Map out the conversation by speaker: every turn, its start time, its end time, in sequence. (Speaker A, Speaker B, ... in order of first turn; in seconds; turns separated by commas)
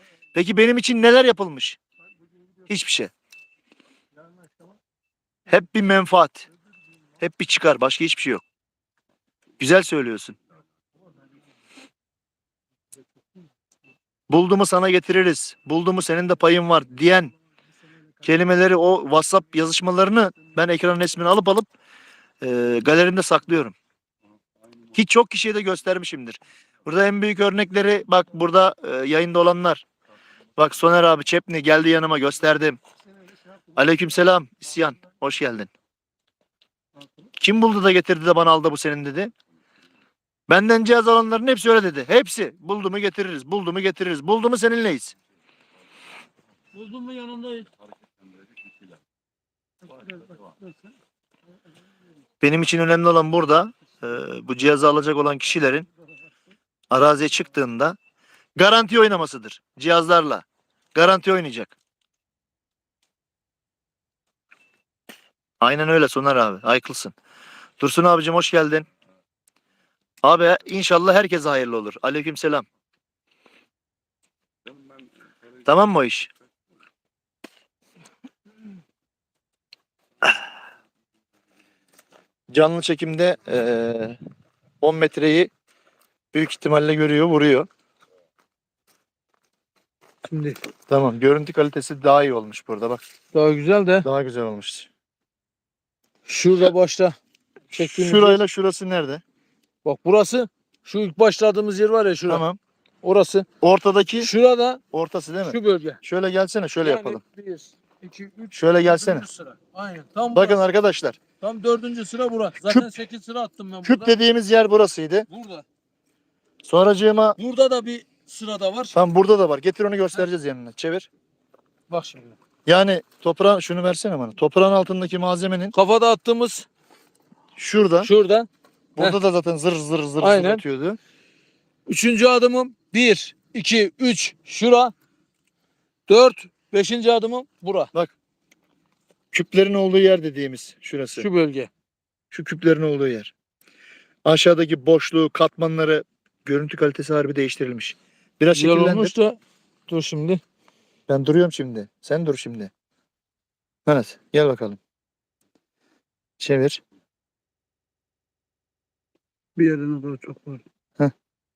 Speaker A: 0.3-1.8, Speaker A: 2.7-3.1, Speaker A: 5.5-6.5, Speaker A: 7.2-8.4, Speaker A: 9.6-10.4, Speaker A: 14.3-17.3, Speaker A: 18.2-21.7, Speaker A: 22.4-23.8, Speaker A: 24.9-29.8, Speaker A: 30.6-32.8, Speaker A: 33.8-35.7, Speaker A: 37.4-39.3, Speaker A: 40.5-45.2, Speaker B: 46.8-47.7, Speaker A: 52.4-55.9, Speaker A: 56.9-58.0, Speaker A: 58.6-60.4, Speaker A: 61.0-61.7, Speaker A: 65.6-67.2, Speaker A: 67.8-68.9, Speaker A: 70.2-72.7, Speaker A: 75.7-76.3, Speaker A: 82.5-84.2, Speaker A: 84.8-85.5, Speaker A: 86.3-87.7, Speaker C: 90.2-90.6, Speaker A: 90.9-93.0, Speaker C: 93.3-94.1, Speaker A: 94.0-94.9, Speaker C: 96.3-97.2, Speaker A: 97.7-99.2, Speaker C: 97.7-98.4, Speaker C: 99.8-102.5, Speaker A: 102.3-102.6, Speaker C: 103.0-103.5, Speaker A: 103.6-104.3, Speaker C: 104.2-104.8, Speaker A: 104.9-107.2, Speaker C: 105.5-106.0, Speaker C: 106.8-110.6, Speaker A: 108.5-109.3, Speaker A: 110.3-111.2, Speaker C: 111.4-114.2, Speaker A: 113.8-115.3, Speaker C: 115.3-115.7, Speaker A: 116.6-117.4, Speaker C: 117.4-119.0, Speaker A: 118.9-121.1, Speaker C: 121.9-122.4, Speaker A: 122.7-125.7, Speaker C: 125.7-126.7, Speaker A: 127.6-128.1, Speaker C: 128.0-129.2, Speaker A: 129.0-131.0, Speaker C: 130.2-130.6, Speaker C: 131.9-134.9, Speaker C: 136.1-137.9, Speaker A: 139.3-141.3, Speaker C: 141.2-141.7, Speaker A: 142.3-143.3, Speaker A: 144.2-149.1, Speaker C: 148.5-150.4, Speaker A: 151.1-152.7, Speaker A: 153.9-154.8, Speaker A: 156.4-156.8, Speaker B: 159.6-160.6